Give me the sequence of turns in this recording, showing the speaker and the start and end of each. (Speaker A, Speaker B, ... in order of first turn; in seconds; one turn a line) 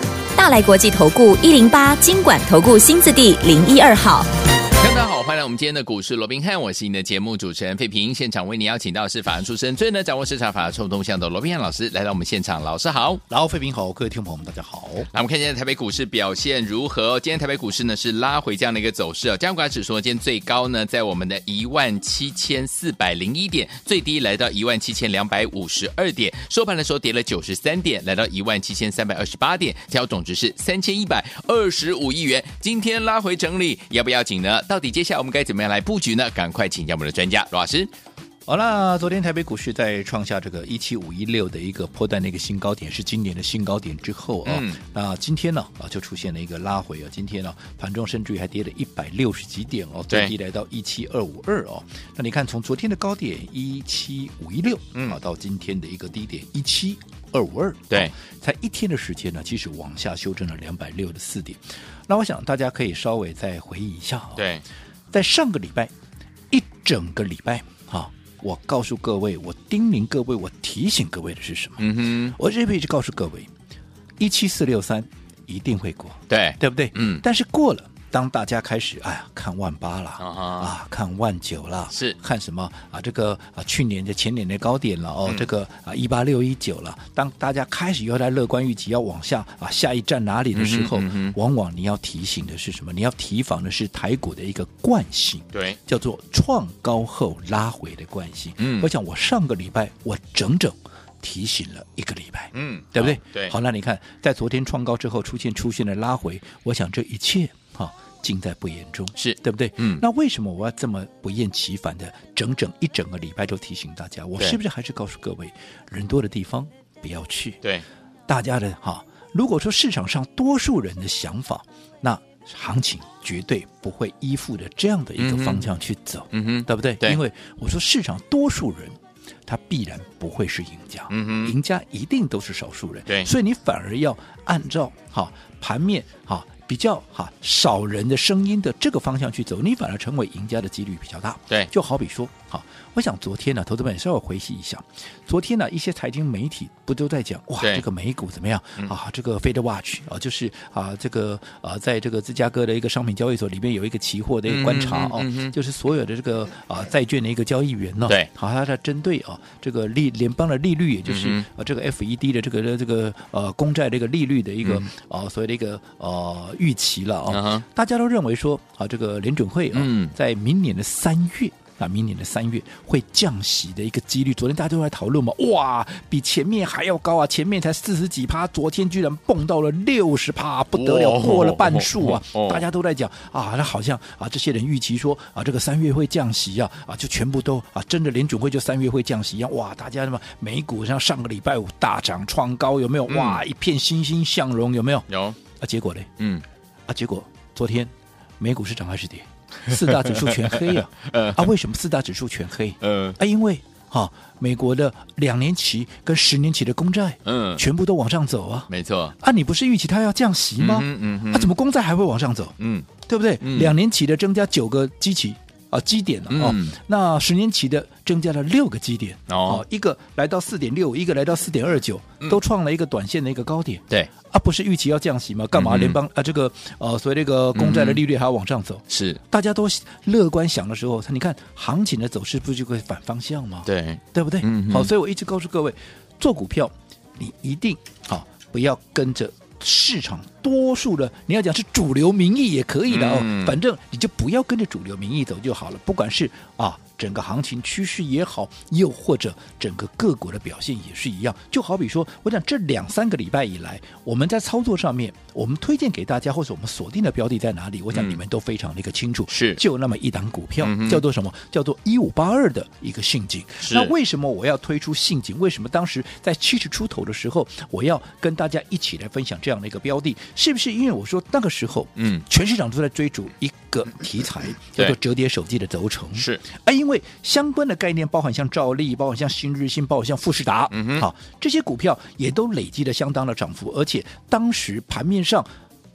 Speaker A: 0.4-4.3
Speaker B: 4.8-13.2
Speaker C: 13.3-15.1
Speaker B: 15.1-37.9
Speaker C: 38.5-64.4
Speaker B: 44.5-44.8
Speaker B: 64.4-64.6
Speaker C: 65.1-65.9
Speaker C: 66.5-73.5
Speaker B: 71.8-72.4
Speaker C: 74.2-117.6
Speaker B: 76.3-77.2
Speaker B: 80.2-80.7
Speaker B: 90.5-91.4
Speaker B: 95.5-95.8
Speaker B: 98.6-98.9
Speaker B: 102.5-103.5
Speaker B: 109.2-110.0
Speaker C: 118.3-195.1
Speaker B: 125.2-125.7
Speaker B: 126.3-127.2
Speaker B: 131.1-131.5
Speaker B: 154.5-155.5
Speaker B: 161.1-161.4
Speaker B: 167.3-167.7
Speaker B: 169.7-170.2
Speaker B: 180.8-182.6
Speaker B: 193.1-193.4
Speaker B: 195.1-195.4
Speaker C: 195.6-196.1
Speaker B: 196.2-196.4
Speaker C: 196.9-212.5
Speaker B: 199.8-201.5
Speaker B: 202.8-203.2
Speaker B: 207.2-207.6
Speaker B: 208.7-209.2
Speaker B: 210.6-211.5
Speaker B: 212.6-212.9
Speaker C: 213.1-285.5
Speaker B: 213.4-213.8
Speaker B: 216.3-216.8
Speaker B: 219.3-219.6
Speaker B: 225.5-226.0
Speaker B: 227.5-228.0
Speaker B: 228.9-229.2
Speaker B: 233.7-234.9
Speaker B: 242.9-243.6
Speaker B: 257.9-258.2
Speaker B: 259.3-259.6
Speaker B: 260.6-261.0
Speaker B: 263.6-263.9
Speaker B: 272.0-272.2
Speaker B: 276.1-276.4
Speaker B: 280.7-281.1